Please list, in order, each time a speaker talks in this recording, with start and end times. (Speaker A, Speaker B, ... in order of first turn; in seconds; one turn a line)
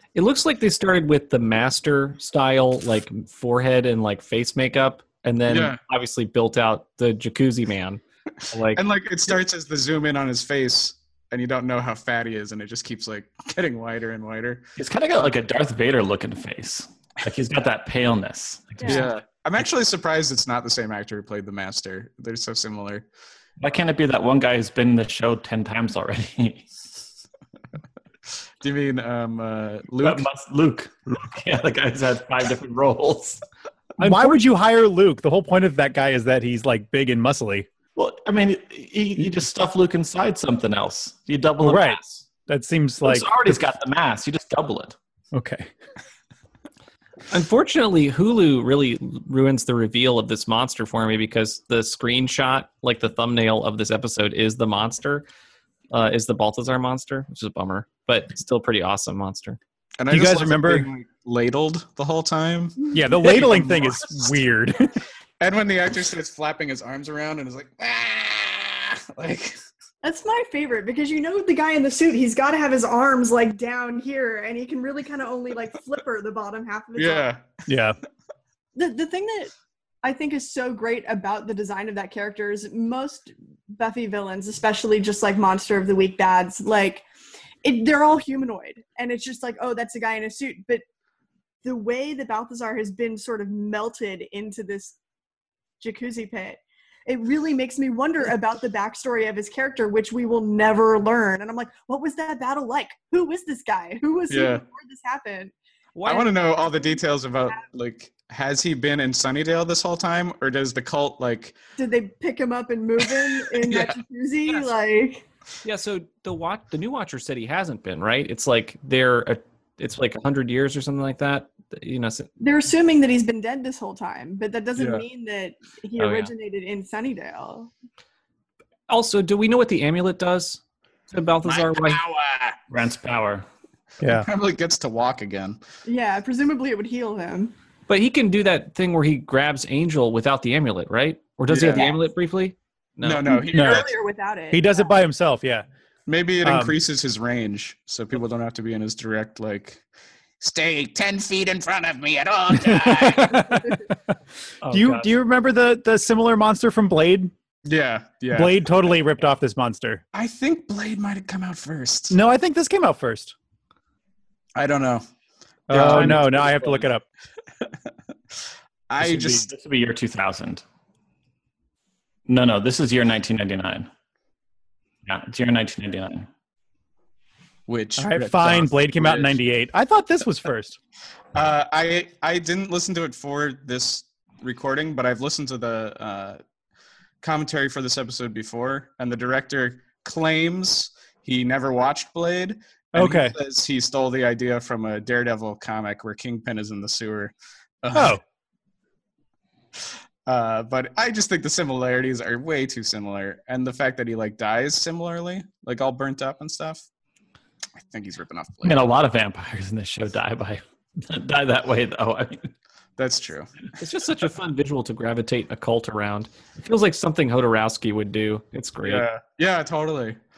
Speaker A: 0.1-8.8
Speaker B: 5.5-5.8
Speaker B: 8.8-14.6
Speaker C: 14.8-19.1
Speaker D: 18.8-19.1
Speaker B: 18.8-23.1
Speaker C: 23.6-26.6
Speaker B: 28.6-30.3
Speaker C: 30.0-33.4
Speaker E: 34.0-37.7
Speaker C: 37.9-42.2
Speaker E: 41.6-43.6
Speaker C: 43.0-45.0
Speaker E: 45.3-45.7
Speaker A: 47.3-55.2
Speaker A: 55.9-59.6
Speaker B: 60.0-63.8
Speaker E: 60.1-60.9
Speaker D: 62.8-63.1
Speaker E: 62.9-65.0
Speaker B: 65.4-69.6
Speaker D: 70.0-77.3
Speaker B: 77.0-77.6
Speaker E: 77.7-78.0
Speaker D: 78.7-79.5
Speaker D: 80.0-87.0
Speaker D: 87.6-90.8
Speaker D: 91.6-95.0
Speaker D: 95.8-105.5
Speaker B: 104.3-104.6
Speaker A: 105.9-106.3
Speaker B: 106.1-111.5
Speaker D: 111.8-115.2
Speaker B: 113.0-114.0
Speaker A: 115.6-122.3
Speaker D: 122.4-127.7
Speaker B: 124.8-125.0
Speaker A: 126.0-126.3
Speaker A: 128.9-132.0
Speaker B: 131.4-132.6
Speaker C: 132.7-133.4
Speaker E: 134.0-134.3
Speaker B: 134.0-135.6
Speaker D: 135.8-137.5
Speaker A: 137.9-143.3
Speaker B: 141.5-141.9
Speaker B: 143.0-143.9
Speaker D: 143.3-144.9
Speaker E: 143.5-143.9
Speaker E: 144.5-145.7
Speaker B: 146.1-149.8
Speaker E: 146.4-146.7
Speaker B: 150.4-153.3
Speaker E: 152.6-153.8
Speaker A: 154.6-155.1
Speaker E: 154.7-157.3
Speaker B: 157.7-158.6
Speaker E: 158.3-160.0
Speaker B: 160.1-162.2
Speaker E: 162.1-163.3
Speaker B: 164.6-165.0
Speaker E: 165.7-167.0
Speaker B: 165.7-166.8
Speaker B: 168.9-169.5
Speaker C: 169.0-170.6
Speaker C: 172.3-173.9
Speaker C: 175.1-176.3
Speaker B: 177.7-179.4
Speaker E: 178.0-180.8
Speaker B: 181.3-186.4
Speaker B: 187.2-198.2
Speaker E: 192.9-193.3
Speaker E: 197.9-198.2
Speaker B: 200.2-206.8
Speaker B: 207.8-208.8
Speaker C: 208.6-212.5
Speaker B: 213.0-213.5
Speaker A: 213.8-219.0
Speaker B: 218.8-220.2